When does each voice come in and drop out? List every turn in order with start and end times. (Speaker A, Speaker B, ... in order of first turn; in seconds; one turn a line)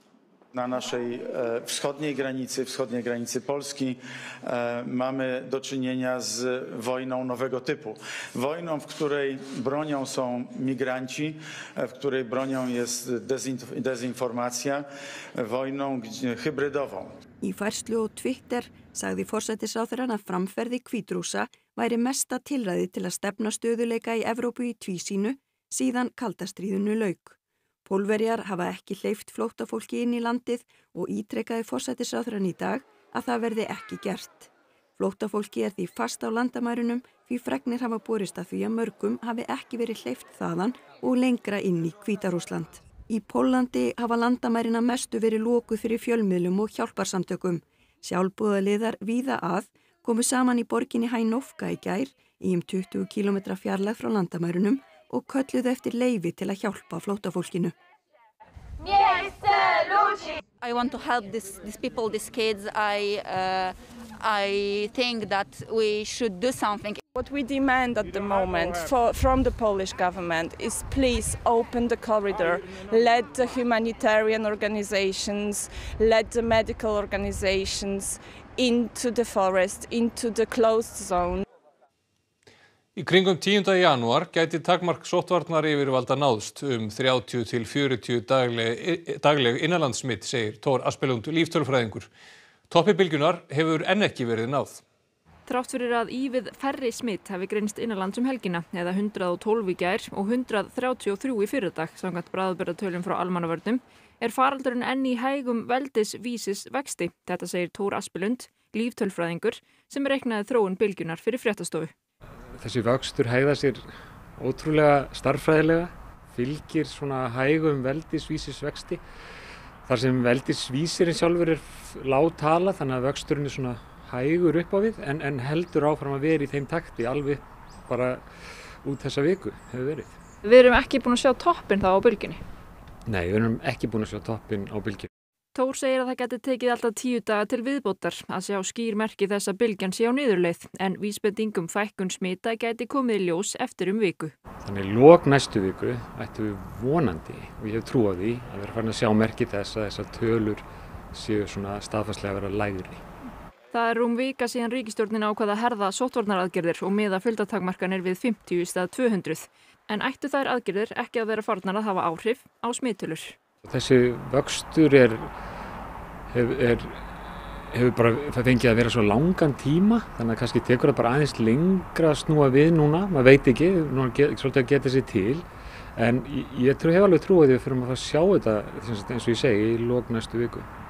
Speaker A: 0.5-17.1
Speaker B: 17.4-57.7
Speaker C: 59.0-59.8
Speaker C: 60.6-67.0
Speaker D: 67.1-81.4
Speaker E: 83.0-92.1
Speaker E: 92.7-94.8
Speaker F: 95.5-111.9
Speaker G: 112.6-119.0
Speaker G: 119.8-130.1
Speaker F: 130.4-132.4
Speaker G: 133.1-135.1
Speaker F: 135.5-144.3
Speaker G: 144.6-153.0
Speaker F: 153.7-163.3
Speaker G: 163.6-165.3
Speaker G: 166.3-167.1
Speaker G: 167.7-180.7